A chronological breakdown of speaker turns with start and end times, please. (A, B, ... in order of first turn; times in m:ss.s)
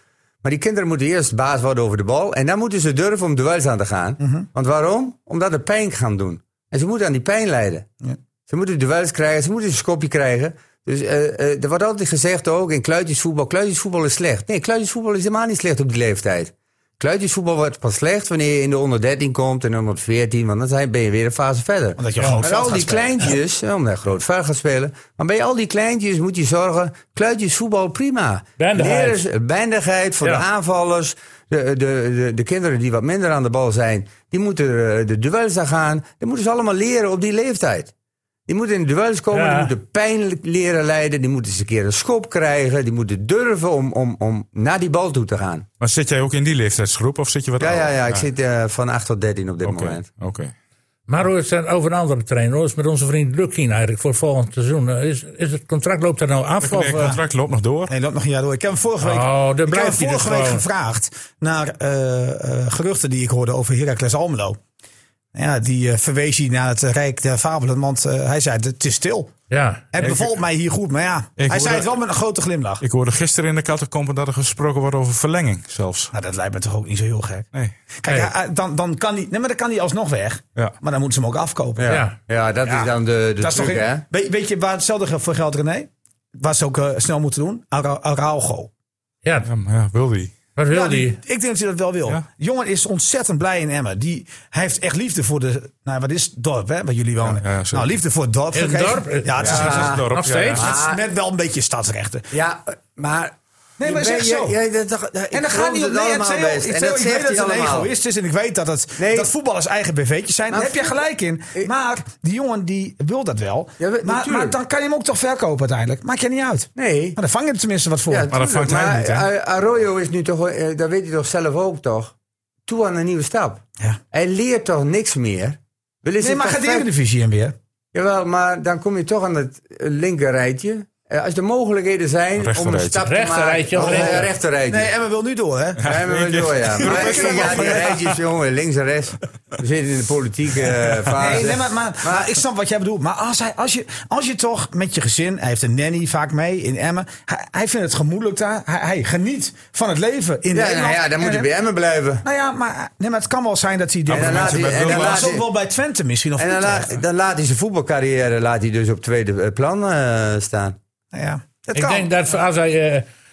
0:00.4-0:07.9 A
0:04.2-0:04.5 B
0:08.5-0:37.9 A
0:22.0-0:23.4 B
0:22.2-0:22.4 C
0:28.6-0:29.2 C
0:38.5-0:45.6 A
0:39.3-0:39.7 C
0:45.8-0:48.2 D
0:47.6-0:50.0 A
0:49.6-0:50.5 D
0:51.1-0:57.1 C
0:56.6-0:57.9 D
0:57.9-1:04.6 B
0:59.0-1:00.6 C
1:05.3-1:09.3 B
1:09.5-1:10.1 C
1:09.9-1:12.8 B
1:11.4-1:11.9 D
1:12.8-1:16.1 D
1:16.1-1:17.4 B
1:18.0-1:22.0 B
1:18.1-1:18.3 C
1:21.8-1:24.0 A
1:21.9-1:22.2 C
1:22.6-1:28.7 B
1:29.4-1:30.3 D
1:30.6-1:31.2 C
1:30.7-1:40.0 B
1:37.2-1:37.9 D
1:38.5-1:40.6 C
1:39.4-1:40.7 D
1:39.4-1:41.0 A
1:40.5-1:42.3 B
1:42.3-1:47.9 A
1:43.8-1:44.6 B
1:45.3-1:58.3 B
1:49.0-1:49.3 A
1:50.5-1:51.0 A
1:53.8-1:54.6 A
1:56.8-1:57.2 A
1:58.1-2:02.1 A
1:58.3-1:59.3 D
2:02.6-2:06.9 A
2:06.2-2:07.5 B
2:07.9-2:14.9 A
2:12.4-2:13.1 D
2:13.0-2:14.3 C
2:13.7-2:15.9 B
2:15.8-2:18.2 D
2:15.8-2:22.3 A
2:16.8-2:18.0 B
2:21.2-2:31.5 B
2:30.5-2:32.2 A
2:32.2-2:37.0 B
2:34.1-2:35.3 D
2:34.1-2:35.4 A
2:36.4-2:40.8 A
2:41.1-2:42.1 B
2:41.7-2:43.0 C